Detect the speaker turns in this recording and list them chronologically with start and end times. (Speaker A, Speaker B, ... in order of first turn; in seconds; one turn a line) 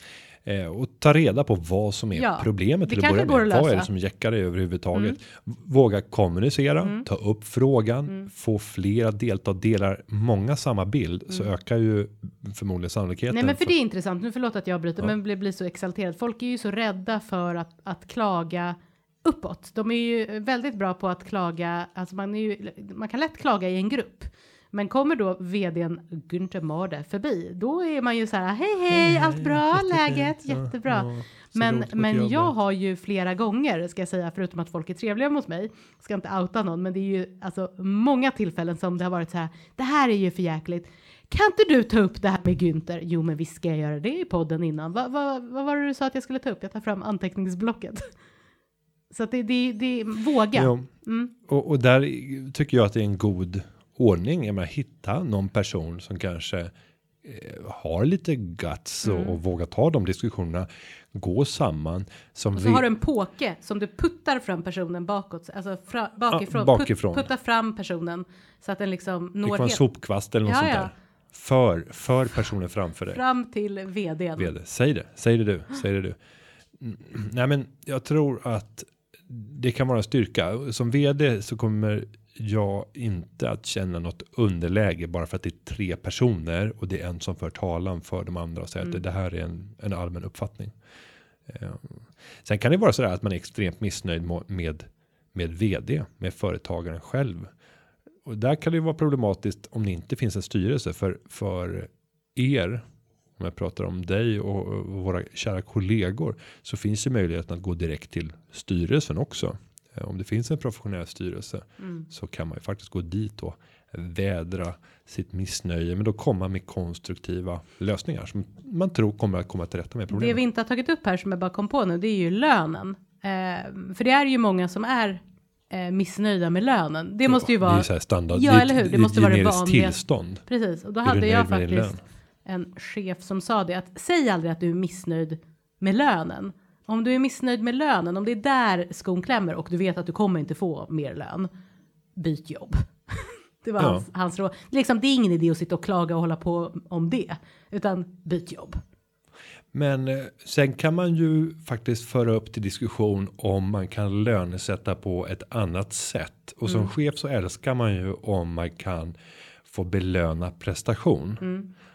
Speaker A: 0.4-13.7
Speaker B: 2.1-3.9
Speaker B: 13.3-48.1
Speaker A: 28.9-32.5
Speaker B: 49.1-51.3
Speaker A: 50.5-50.9
Speaker A: 51.4-56.7
Speaker A: 57.2-62.9
Speaker B: 59.0-59.4
Speaker B: 62.5-69.8
Speaker A: 66.3-67.3
Speaker A: 69.4-73.2
Speaker B: 70.4-70.9
Speaker B: 73.1-74.5
Speaker A: 74.4-76.2
Speaker A: 76.8-90.7
Speaker A: 91.5-97.5
Speaker A: 98.2-102.8
Speaker A: 103.4-120.4
Speaker B: 111.8-112.0
Speaker B: 120.1-141.5
Speaker A: 127.2-130.4
Speaker A: 131.0-132.0
Speaker B: 142.2-148.8
Speaker A: 143.8-144.0
Speaker A: 149.7-159.1
Speaker A: 159.7-161.4
Speaker B: 161.4-161.7